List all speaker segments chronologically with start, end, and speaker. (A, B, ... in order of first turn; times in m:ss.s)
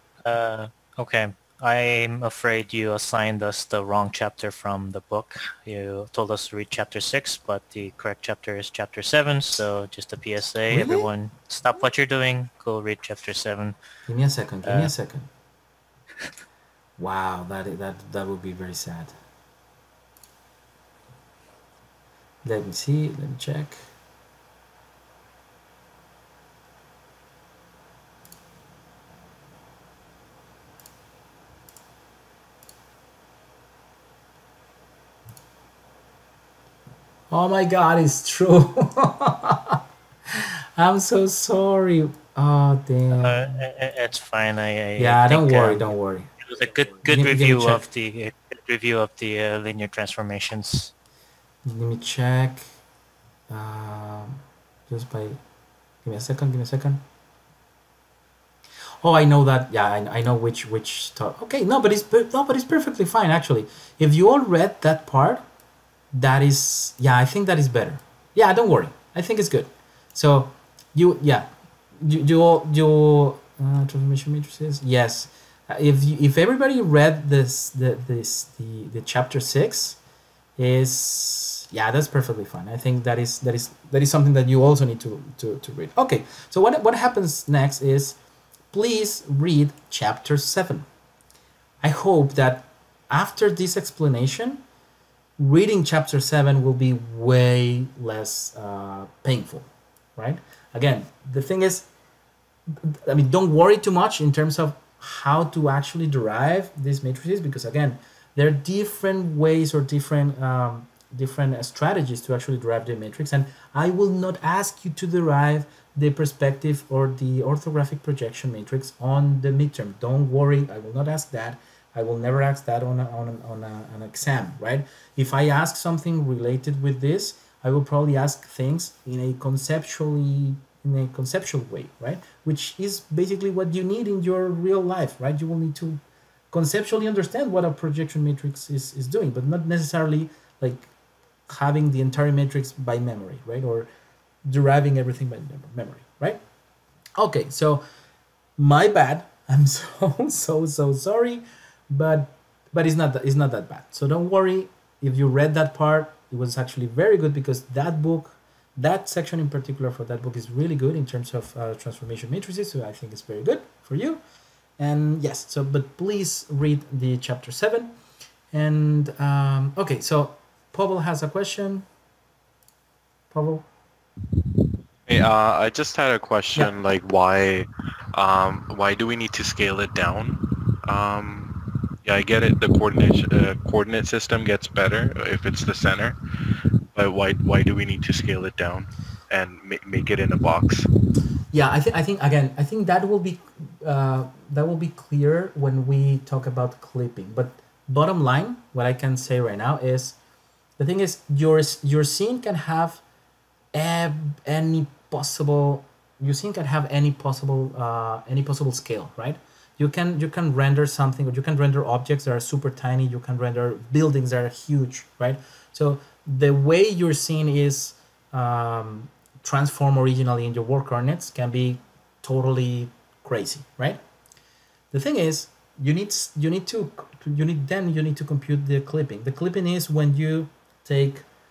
0:00.2-0:13.8 A
0:10.7-0:11.1 B
0:14.1-0:15.3 B
0:14.6-0:14.9 A
0:17.0-0:19.1 B
0:22.4-0:23.8 B
0:37.3-0:39.8 B
0:40.3-0:43.4 B
0:43.2-0:45.9 A
0:45.0-0:46.3 B
0:46.4-0:50.9 A
0:47.1-0:47.8 B
0:51.6-0:52.6 B
0:53.5-0:55.4 B
0:56.0-0:57.0 B
0:59.0-1:05.4 B
1:06.1-1:11.5 B
1:12.0-1:20.0 B
1:20.6-1:28.2 B
1:28.7-1:30.9 B
1:31.8-1:34.6 B
1:35.4-1:41.9 B
1:42.8-2:16.0 B
2:16.5-2:20.9 B
2:21.5-2:23.9 B
2:24.5-2:26.4 B
2:27.2-2:27.8 B
2:28.6-2:44.2 B
2:44.8-2:47.9 B
2:48.5-2:51.8 B
2:53.3-2:53.7 B
2:55.1-3:06.2 C
3:06.9-3:10.9 C
3:11.5-3:20.2 B
3:20.8-3:23.0 B
3:23.7-3:44.0 B
3:44.9-3:51.2 B